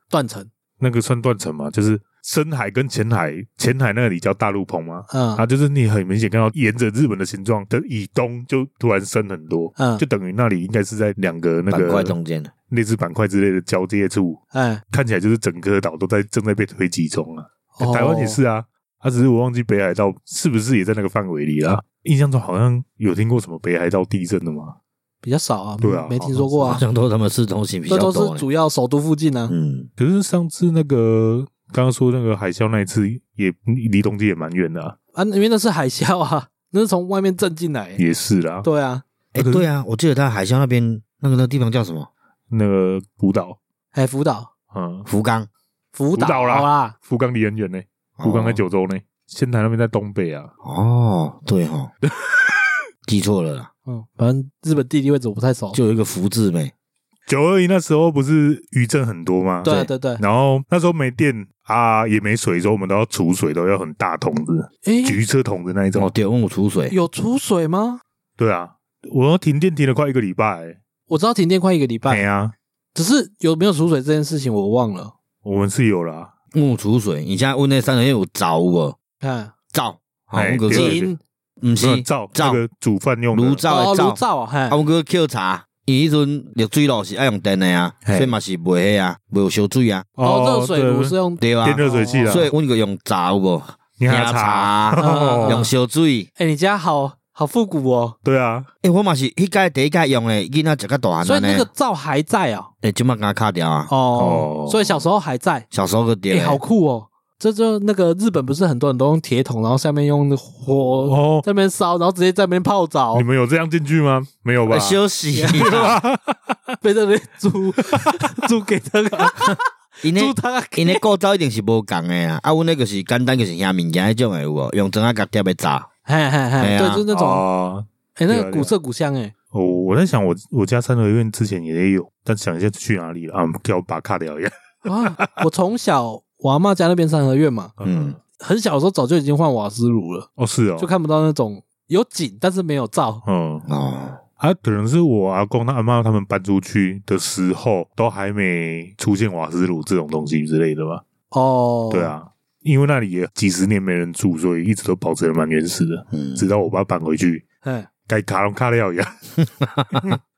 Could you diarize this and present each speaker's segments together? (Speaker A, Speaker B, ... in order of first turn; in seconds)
Speaker A: 0.1-0.5, 5.1-5.4, 9.8-10.0, 14.5-14.8, 17.8-18.4, 25.2-26.8, 27.9-29.5, 35.1-38.0, 38.6-39.0, 43.9-44.5, 46.0-47.0, 53.9-55.8, 59.6-60.2, 64.8-65.2, 66.9-68.0, 71.1-72.2, 73.0-75.1, 79.2-79.5, 80.7-81.2, 83.7-84.8, 90.2-92.5, 95.0-95.7, 96.4-98.2, 101.2-102.7, 103.9-105.6, 106.3-113.2, 115.3-115.8, 116.8-121.0, 126.1-127.4, 128.2-129.3, 134.8-137.7, 138.4-140.3, 140.8-143.2, 151.3-152.1, 157.6-157.9
Speaker B: 0.8-12.1, 12.7-14.4, 14.9-24.8, 25.8-26.8, 30.0-35.0, 38.0-38.6, 39.4-39.7, 42.5-43.6, 44.7-45.1, 46.1-50.5, 52.0-52.7, 57.3-66.1, 68.4-70.8, 72.1-72.5, 75.4-76.3, 80.3-81.1, 81.8-83.6, 88.0-88.3, 90.2-92.5, 94.0-95.6, 98.2-98.7, 104.2-104.9, 111.0-111.5, 113.1-116.6, 117.9-118.2, 127.1-128.7, 129.5-135.3, 137.8-138.2, 140.4-140.9, 143.2-143.6, 144.4-151.0, 151.9-157.4, 158.1-159.3
Speaker C: 11.7-12.5, 26.6-28.4, 29.5-29.9, 39.3-42.1, 45.1-45.5, 48.2-48.6, 50.6-51.9, 53.1-53.7, 55.7-56.7, 59.6-59.9, 65.9-67.0, 76.5-79.0, 79.7-81.0, 81.6-82.6, 83.3-90.1, 91.4-96.3, 98.8-101.7, 102.8-103.9, 105.7-106.6, 114.7-116.0, 120.0-125.9, 126.6-127.0, 137.8-138.2, 143.7-144.2, 156.1-156.5